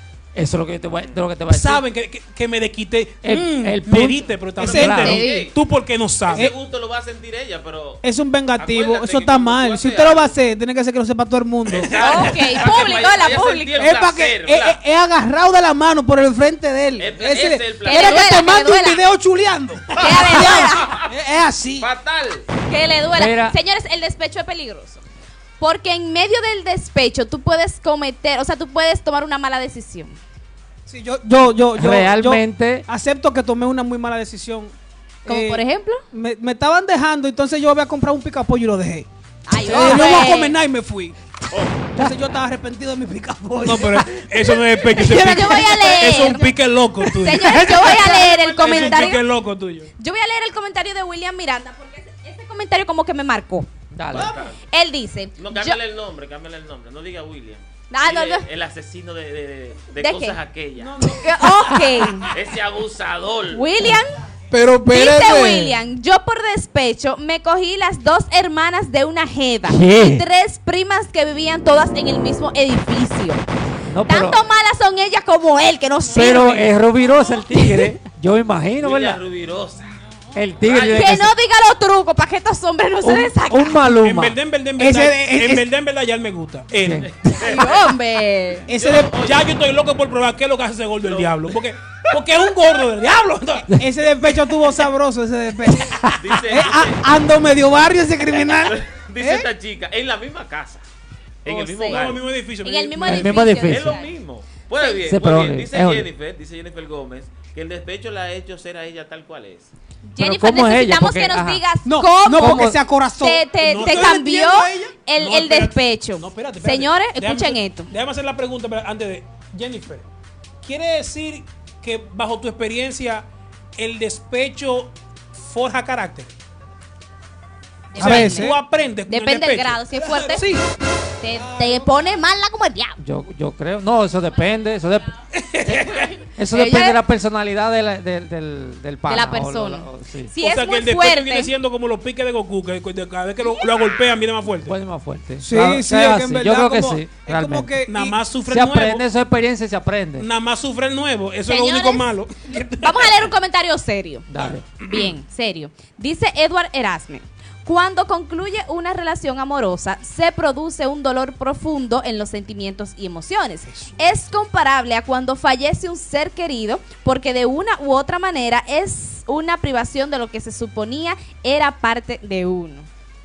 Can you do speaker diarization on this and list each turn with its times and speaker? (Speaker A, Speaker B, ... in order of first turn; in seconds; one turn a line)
Speaker A: 0.3-1.8
Speaker B: 0.9-1.2
Speaker C: 1.5-6.5
Speaker A: 3.2-5.2
Speaker B: 4.6-5.6
Speaker D: 4.6-5.3
Speaker E: 5.0-5.5
Speaker B: 6.3-8.0
Speaker D: 8.0-12.6
Speaker B: 8.6-10.3
Speaker B: 11.7-14.8
Speaker E: 11.9-13.7
Speaker D: 13.8-21.9
Speaker B: 17.0-18.4
Speaker E: 17.9-19.0
Speaker B: 19.9-21.1
Speaker E: 20.0-21.0
Speaker B: 21.8-22.5
Speaker E: 22.7-25.0
Speaker A: 23.2-23.6
Speaker E: 25.6-30.2
Speaker D: 30.9-34.7
Speaker A: 31.8-32.9
Speaker D: 35.2-39.1
Speaker E: 35.3-36.0
Speaker E: 39.5-40.6
Speaker D: 39.6-41.1
Speaker B: 41.5-41.9
Speaker D: 42.0-46.5
Speaker C: 43.6-49.9
Speaker E: 45.0-46.5
Speaker D: 47.0-48.8
Speaker E: 47.2-49.2
Speaker E: 50.0-53.7
Speaker A: 53.9-54.4
Speaker B: 54.1-54.6
Speaker E: 54.7-55.8
Speaker B: 55.4-61.1
Speaker E: 57.9-58.5
Speaker E: 60.0-60.4
Speaker C: 60.8-62.3
Speaker E: 61.0-62.3
Speaker B: 62.3-63.7
Speaker E: 63.5-64.2
Speaker D: 64.5-65.8
Speaker E: 64.9-73.4
Speaker A: 69.7-70.3
Speaker A: 73.9-74.4
Speaker E: 74.0-76.7
Speaker A: 76.1-79.2
Speaker E: 77.5-77.9
Speaker B: 78.8-80.0
Speaker A: 80.3-81.3
Speaker B: 80.6-81.2
Speaker E: 80.7-83.8
Speaker A: 83.0-84.4
Speaker C: 84.0-87.1
Speaker D: 84.8-85.7
Speaker A: 86.8-87.1
Speaker B: 87.1-87.9
Speaker E: 87.4-88.7
Speaker B: 88.6-89.5
Speaker D: 88.7-89.2
Speaker C: 89.2-93.9
Speaker B: 91.0-92.8
Speaker D: 93.7-99.5
Speaker A: 95.8-96.2
Speaker B: 96.1-97.0
Speaker B: 98.6-100.8
Speaker B: 101.4-102.2
Speaker E: 101.5-102.1
Speaker C: 101.9-103.5
Speaker E: 102.6-104.1
Speaker A: 103.0-104.0
Speaker B: 103.5-109.7
Speaker A: 105.0-106.1
Speaker E: 110.1-117.9
Speaker A: 110.2-111.6
Speaker D: 111.8-114.9
Speaker A: 112.4-112.8
Speaker C: 113.6-120.1
Speaker C: 120.6-123.2
Speaker C: 123.8-126.3
Speaker E: 127.9-128.6
Speaker C: 128.0-130.4
Speaker A: 128.0-128.4
Speaker D: 128.0-128.6
Speaker E: 129.1-130.5
Speaker D: 130.3-130.6
Speaker E: 131.2-133.0
Speaker A: 133.0-140.3
Speaker C: 135.4-136.0
Speaker E: 135.8-137.0
Speaker E: 139.1-141.5
Speaker C: 140.4-144.8
Speaker E: 143.4-143.8
Speaker A: 144.7-147.8
Speaker D: 145.4-148.2
Speaker C: 147.9-149.1
Speaker A: 148.5-150.3
Speaker C: 150.2-153.3
Speaker E: 151.5-152.1
Speaker E: 152.8-154.3
Speaker A: 154.3-154.7
Speaker C: 154.4-155.1
Speaker E: 154.8-172.9
Speaker C: 163.7-164.1